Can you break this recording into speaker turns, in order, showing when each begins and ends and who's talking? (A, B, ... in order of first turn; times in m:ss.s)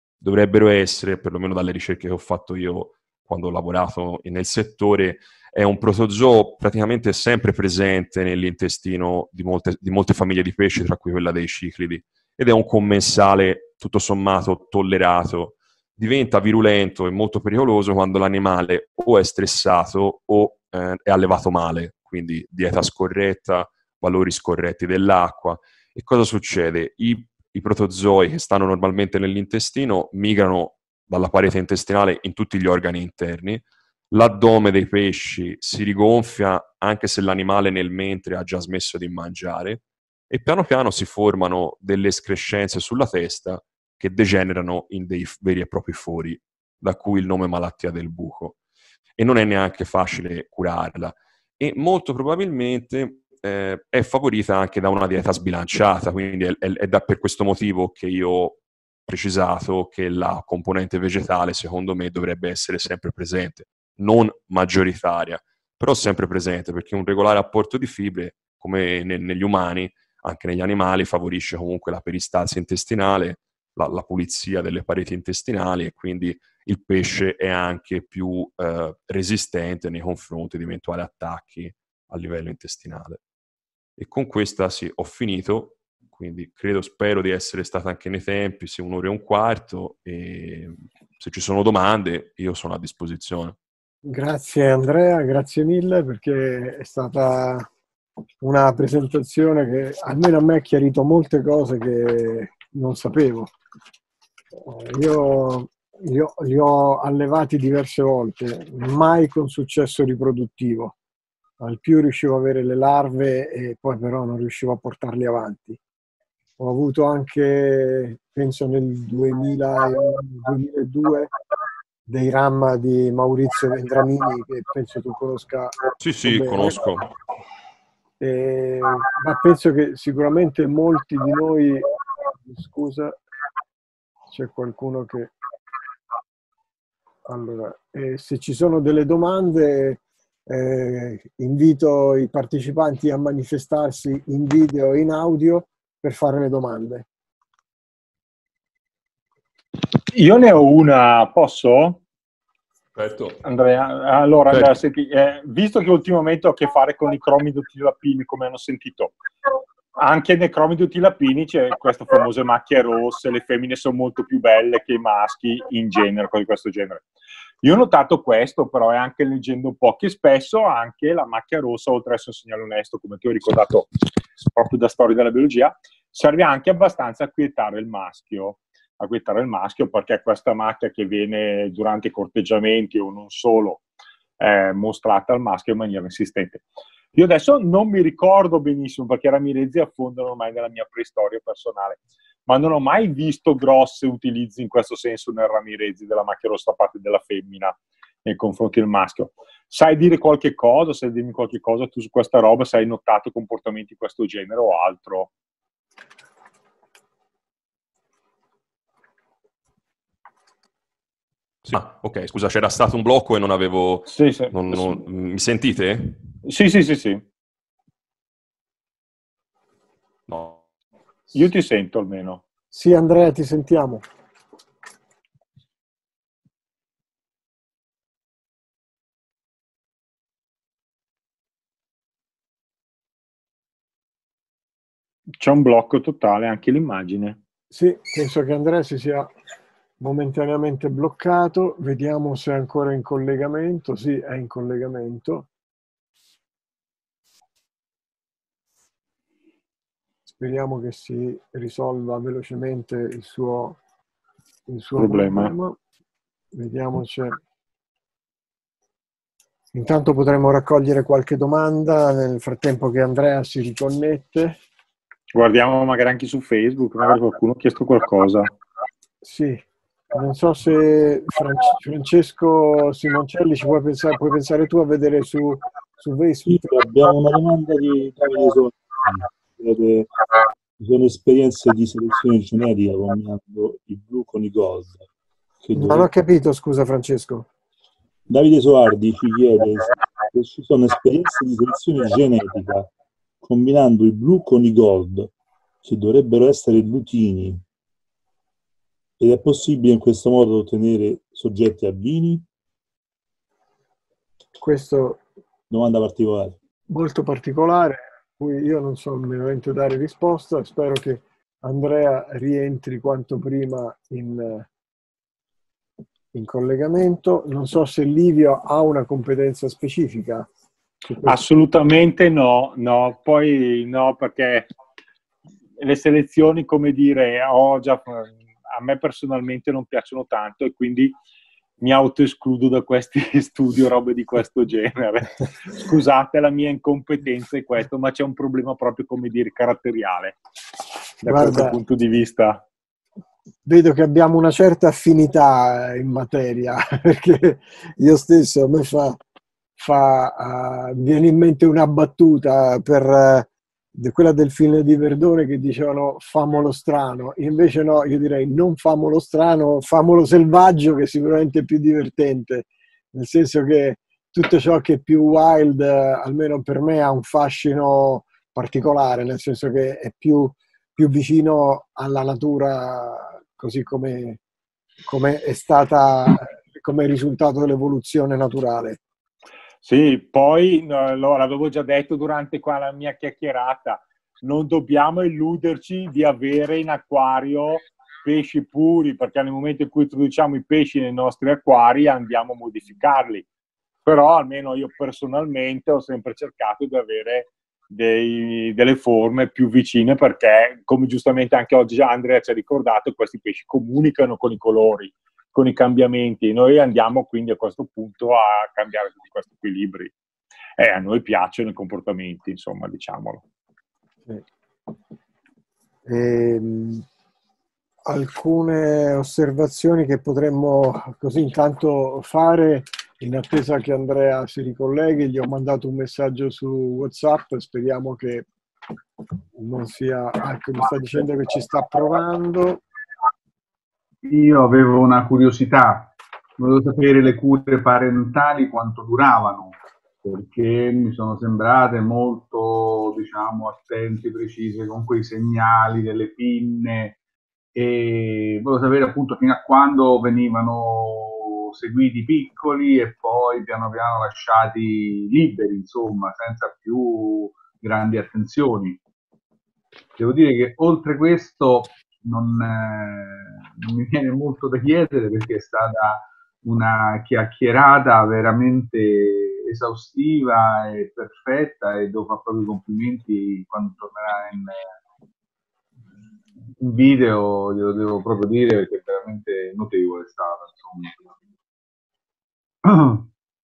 0:00.2-0:48.6 A
0:49.2-1:23.2 A
1:24.0-1:33.6 A
1:34.0-1:37.7 B
1:38.4-1:43.5 B
1:44.6-1:50.9 B
1:51.6-1:55.8 B
1:56.6-2:01.3 B
2:02.1-2:06.8 B
2:06.0-2:07.1 A
2:08.2-2:13.2 B
2:14.3-2:15.3 B
2:17.3-2:27.0 B
2:30.1-2:32.0 C
2:33.0-2:33.4 A
2:33.4-2:39.1 C
2:34.5-2:34.7 A
2:40.0-2:47.0 C
2:47.6-2:53.9 C
2:54.5-3:03.8 C
3:04.4-3:06.6 C
3:07.1-3:25.3 C
3:31.6-3:36.2 A
3:34.1-3:35.0 C
3:36.4-3:37.2 C
3:40.3-3:40.6 A
3:41.3-3:42.4 C
3:42.7-3:44.0 B
3:55.4-3:57.4 C
3:57.7-3:59.3 B
4:00.0-4:05.5 B
4:10.4-4:13.8 B
4:14.7-4:15.8 B
4:15.0-4:15.5 C
4:16.5-4:17.4 B
4:19.7-4:24.6 B
4:25.3-4:28.5 C
4:29.2-4:36.7 B
4:36.4-4:40.2 D
4:40.8-4:45.1 D
4:45.6-4:46.1 D
4:45.8-4:47.5 B
4:48.3-4:52.9 D
4:53.4-4:55.3 D
4:55.8-4:57.6 D
4:59.2-5:02.4 D
5:04.6-5:05.2 B
5:05.7-5:06.6 D
5:06.9-5:14.7 B
5:16.3-5:20.5 B
5:21.0-5:21.4 B
5:21.2-5:24.7 C
5:25.8-5:31.1 C
5:31.8-5:40.4 C
5:41.2-5:42.6 C
5:41.2-5:41.8 B
5:43.6-5:49.2 B
5:49.8-6:14.4 B
6:15.0-6:19.0 B
6:19.8-6:33.4 C
6:34.0-6:50.1 C
6:50.8-6:53.4 C
6:56.1-6:57.0 B
6:58.0-7:08.5 B
7:09.6-7:12.8 B
7:14.2-7:27.2 E
7:27.7-7:39.0 E
7:40.2-7:54.9 E
7:56.8-8:01.2 E
8:02.8-8:03.3 E